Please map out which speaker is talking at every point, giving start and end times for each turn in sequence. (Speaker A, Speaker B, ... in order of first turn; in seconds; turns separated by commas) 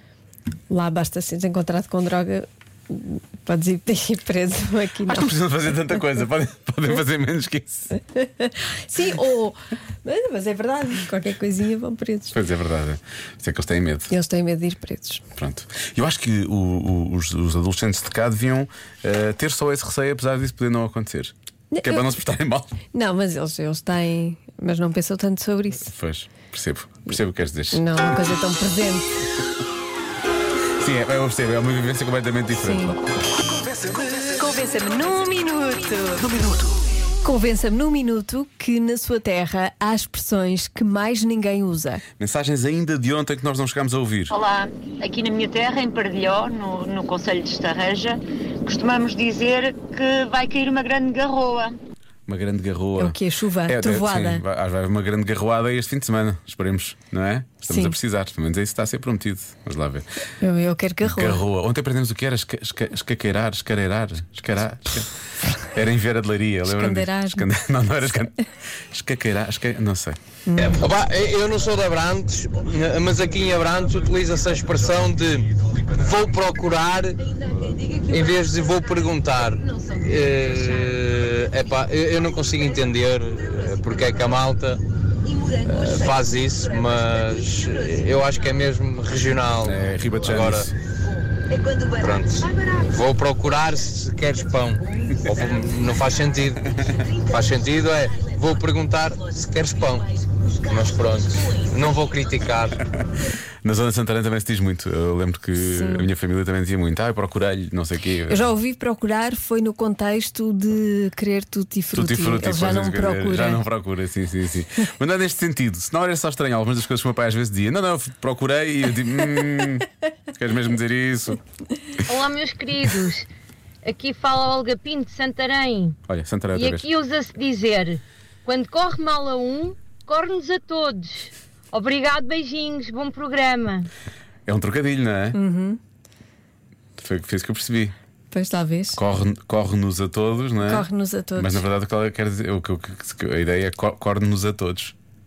Speaker A: 0.7-5.4, Speaker B: 5.0-7.9, Speaker A: 8.1-12.3, Speaker B: 12.3-14.1, Speaker A: 14.1-15.2, Speaker B: 15.4-22.7, Speaker A: 21.7-22.1, Speaker A: 22.9-25.9, Speaker B: 25.9-28.2, Speaker A: 27.7-29.1, Speaker B: 30.8-33.0, Speaker A: 32.6-33.0, Speaker A: 34.4-36.3, Speaker A: 37.2-42.0, Speaker B: 42.2-44.4, Speaker C: 44.3-51.8, Speaker B: 52.3-60.1, Speaker A: 53.0-54.4, Speaker A: 57.7-58.0, Speaker A: 60.4-61.4, Speaker B: 61.0-65.1, Speaker B: 65.7-70.2, Speaker A: 66.7-67.5, Speaker A: 70.5-70.8, Speaker D: 70.6-77.1, Speaker D: 78.1-84.8, Speaker D: 85.6-90.7, Speaker B: 89.6-90.7, Speaker D: 92.0-96.6, Speaker D: 97.2-100.1, Speaker D: 100.7-102.8, Speaker B: 103.6-108.5, Speaker A: 105.6-106.1, Speaker A: 108.3-113.6, Speaker B: 111.9-121.4, Speaker E: 122.1-123.3, Speaker E: 123.8-126.0, Speaker B: 126.1-126.9, Speaker E: 126.5-133.9, Speaker B: 134.5-135.4, Speaker A: 135.3-135.8, Speaker B: 137.0-137.9, Speaker A: 138.3-139.0, Speaker B: 138.9-144.9, Speaker A: 140.6-141.6